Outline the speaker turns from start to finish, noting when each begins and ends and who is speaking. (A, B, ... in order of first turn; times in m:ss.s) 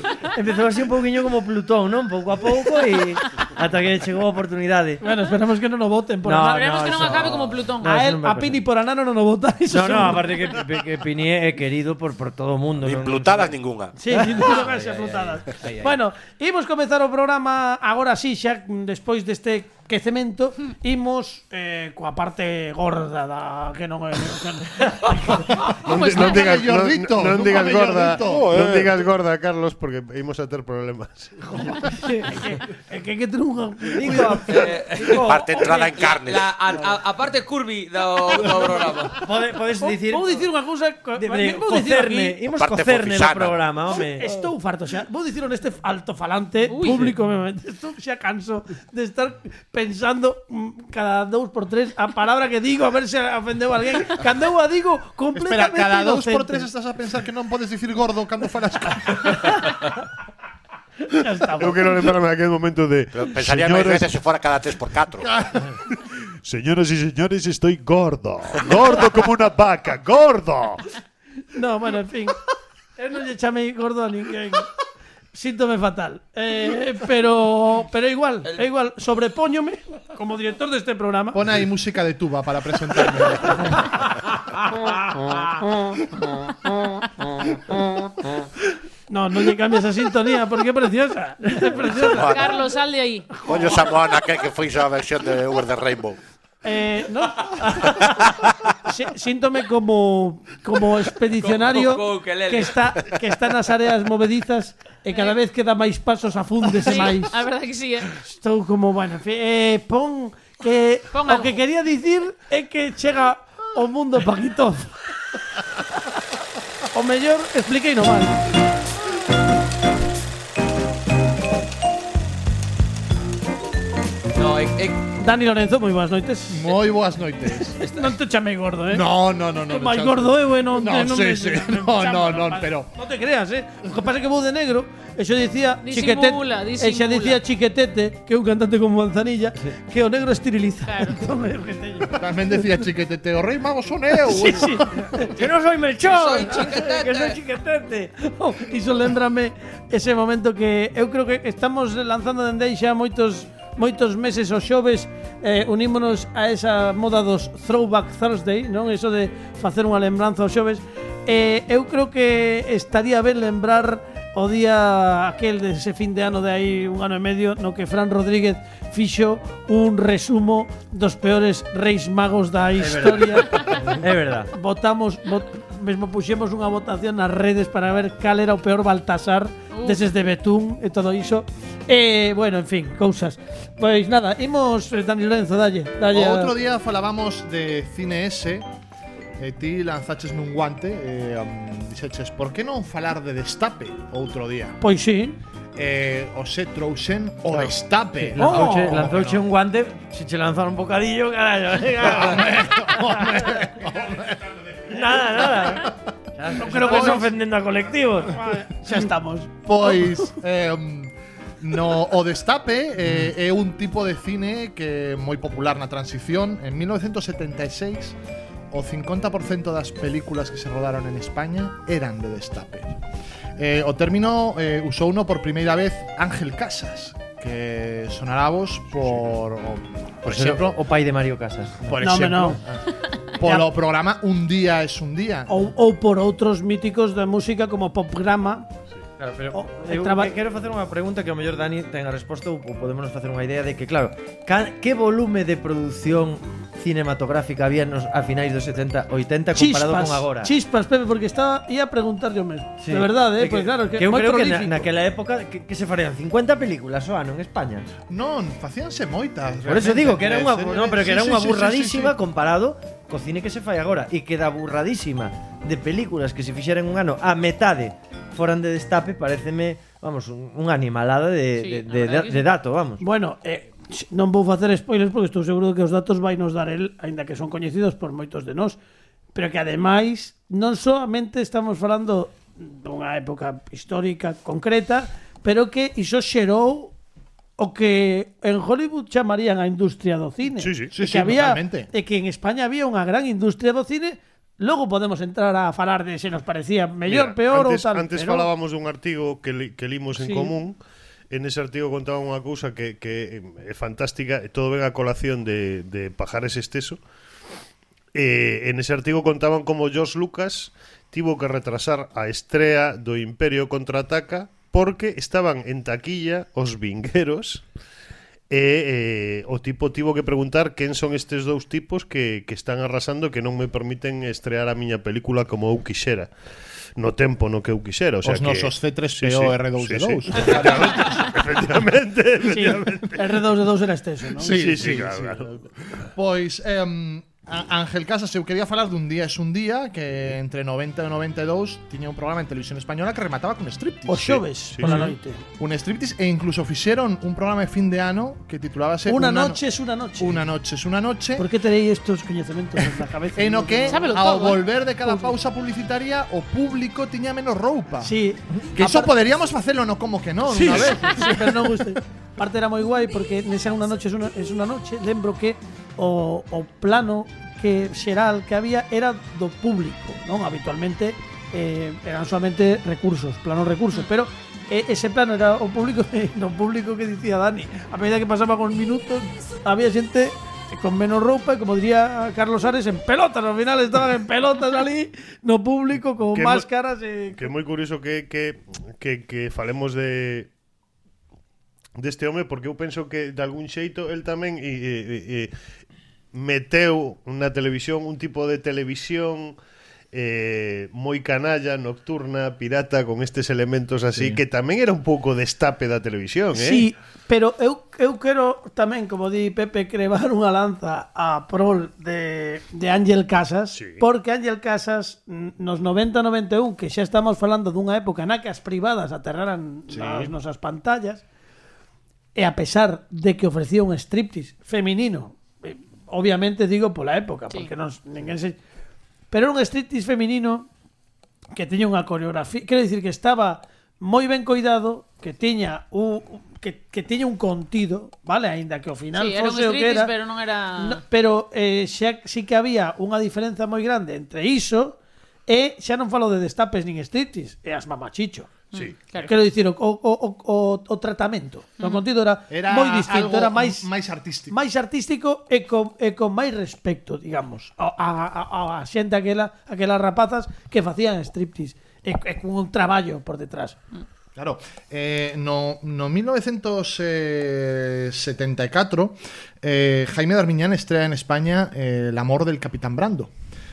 0:00.2-0:05.0 A
0:05.0-0:06.9 B
0:06.2-0:08.6 A
0:06.4-0:07.9 C
0:07.8-0:10.2 B
0:09.7-0:13.6 A
0:12.8-0:14.0 D
0:14.0-0:25.7 B
0:14.1-0:15.4 A
0:25.7-0:31.9 E
0:25.9-0:26.5 C
0:26.0-0:28.6 F
0:28.2-0:29.0 D
0:32.1-0:34.7 B
0:33.9-0:35.7 A
0:34.5-0:39.2 G
0:35.1-0:36.5 D
0:39.1-0:40.5 A
0:39.8-0:42.4 B
0:41.2-0:44.4 A
0:42.6-0:43.7 D
0:44.0-0:56.7 B
0:46.7-0:47.1 C
0:55.4-0:59.6 F
1:01.0-1:02.1 B
1:01.6-1:04.2 E
1:03.1-1:05.3 D
1:05.2-1:05.6 F
1:05.9-1:10.9 E
1:11.5-1:12.4 B
1:13.0-1:14.7 B
1:15.3-1:21.4 B
1:21.3-1:24.1 F
1:24.9-1:25.4 B
1:29.1-1:32.4 B
1:32.1-1:33.4 C
1:32.1-1:32.5 D
1:33.4-1:36.2 D
1:36.6-1:38.1 B
1:38.7-1:47.3 B
1:41.4-1:42.7 G
1:46.8-1:48.2 C
1:48.2-1:55.0 B
1:51.1-1:51.6 C
1:56.9-1:58.5 B
2:04.4-2:05.0 G
2:05.2-2:06.7 B
2:06.5-2:07.8 F
2:07.8-2:09.0 B
2:08.9-2:12.9 F
2:09.7-2:22.2 B
2:15.8-2:17.4 C
2:20.9-2:21.2 C
2:22.2-2:25.0 F
2:24.2-2:25.3 B
2:25.1-2:28.1 A
2:26.1-2:27.4 G
2:28.2-2:53.8 B
2:52.8-2:54.5 A
2:54.5-3:06.5 B
2:59.7-3:00.1 C
3:06.1-3:08.7 F
3:09.4-3:14.8 F
3:14.8-3:15.4 B
3:15.8-3:19.4 F
3:17.5-3:23.5 A
3:18.4-3:19.0 B
3:22.0-3:24.6 F
3:24.9-3:28.5 A
3:26.5-3:27.3 B
3:26.8-3:27.2 F
3:28.3-3:30.3 B
3:29.7-3:38.2 F
3:38.7-3:43.0 F
3:43.6-3:50.8 F
3:50.2-3:52.0 A
3:51.8-3:55.6 F
3:52.0-3:52.6 B
3:53.4-3:53.7 B
3:55.5-3:58.7 B
3:59.2-4:10.5 A
3:59.5-4:00.3 B
4:09.6-4:14.9 B
4:12.8-4:17.9 A
4:18.1-4:22.2 F
4:19.6-4:33.0 A
4:31.6-4:32.4 C
4:33.0-4:38.8 B
4:39.4-4:46.9 B
4:47.6-4:58.5 B
4:50.6-4:51.0 E
4:50.9-4:51.9 F
4:57.1-5:00.8 E
5:00.2-5:00.6 B
5:01.3-5:07.0 E
5:08.2-5:17.6 E
5:18.5-5:26.3 E
5:27.0-5:33.3 E
5:28.2-5:31.4 F
5:32.5-5:34.6 B
5:34.4-5:49.6 F
5:34.4-5:35.6 E
5:44.1-5:45.4 B
5:44.6-5:45.2 E
5:49.1-5:50.4 B
5:50.2-5:51.5 F
5:51.4-5:54.2 B
5:53.4-5:58.2 F
5:53.9-5:54.7 C
5:55.0-5:55.3 B
5:58.0-5:59.1 B
5:58.8-6:01.8 F
6:00.5-6:27.5 B
6:26.3-6:26.7 E
6:27.3-6:30.5 E
6:32.0-6:35.5 E
6:36.3-6:39.6 E
6:40.1-6:46.9 E
6:46.5-7:01.2 B
6:53.7-6:54.0 E
6:59.9-7:00.3 F
7:02.4-7:08.6 B
7:09.3-7:10.7 B
7:11.5-7:20.1 B
7:19.2-7:21.0 C
7:20.8-7:28.5 B
7:28.7-7:29.3 C
7:29.2-7:33.9 B
7:32.5-7:34.6 F
7:34.5-7:43.8 B
7:44.4-7:53.3 F